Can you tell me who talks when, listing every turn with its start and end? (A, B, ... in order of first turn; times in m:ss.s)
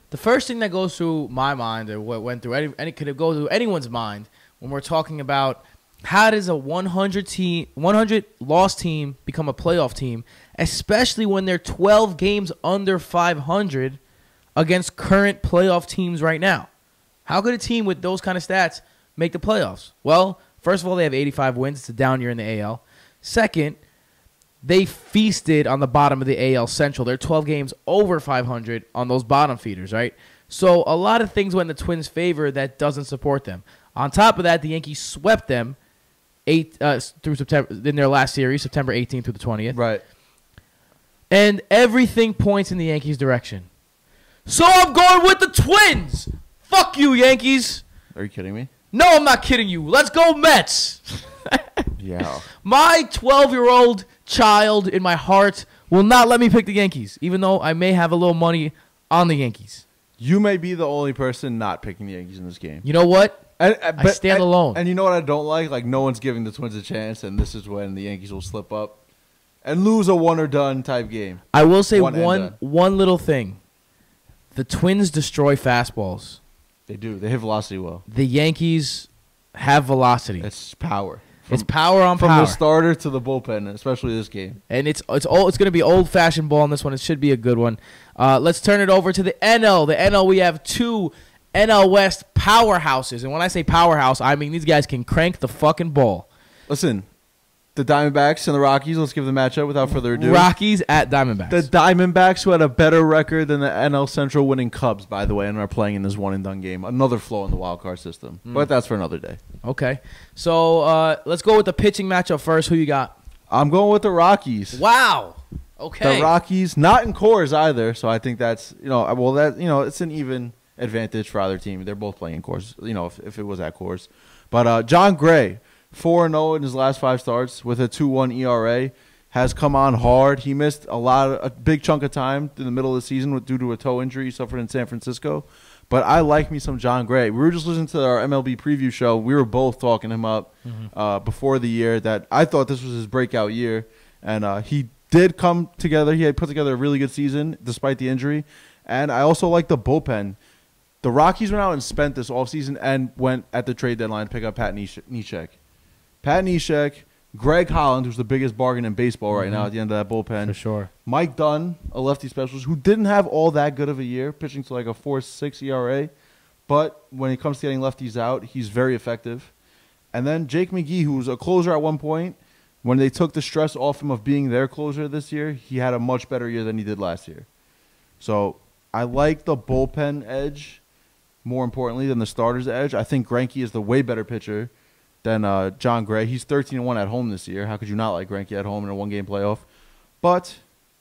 0:00.1-0:14.0 A
0:14.6-0:16.7 A
0:17.3-0:23.8 A
0:24.6-0:35.8 A
0:36.5-0:39.8 A
0:39.7-0:40.0 B
0:41.3-0:43.7 A
0:44.5-0:47.8 A
0:48.1-0:48.7 B
0:48.9-0:51.9 A
0:52.0-0:52.5 B
0:52.5-0:59.8 A
1:00.2-1:02.8 B
1:02.8-1:04.8 A
1:03.6-1:09.0 B
1:09.6-1:12.6 B
1:11.5-1:13.6 A
1:14.5-1:16.4 A
1:16.9-1:18.0 B
1:18.1-1:20.5 A
1:20.4-1:24.6 B
1:21.5-1:22.6 A
1:24.7-1:36.3 A
1:36.7-1:37.1 B
1:37.8-1:40.5 B
1:40.1-1:41.7 A
1:41.5-1:49.4 B
1:49.6-1:53.2 A
1:53.5-1:54.8 B
1:54.7-1:56.3 A
1:56.0-2:30.4 B
2:31.0-2:35.6 B
2:36.2-2:46.1 B
2:39.4-2:39.7 A
2:40.4-2:40.9 A
2:46.7-2:49.5 B
2:50.1-2:57.5 B
2:58.2-3:00.8 B
3:01.4-3:04.7 B
3:05.2-3:09.6 B
3:10.2-3:10.6 B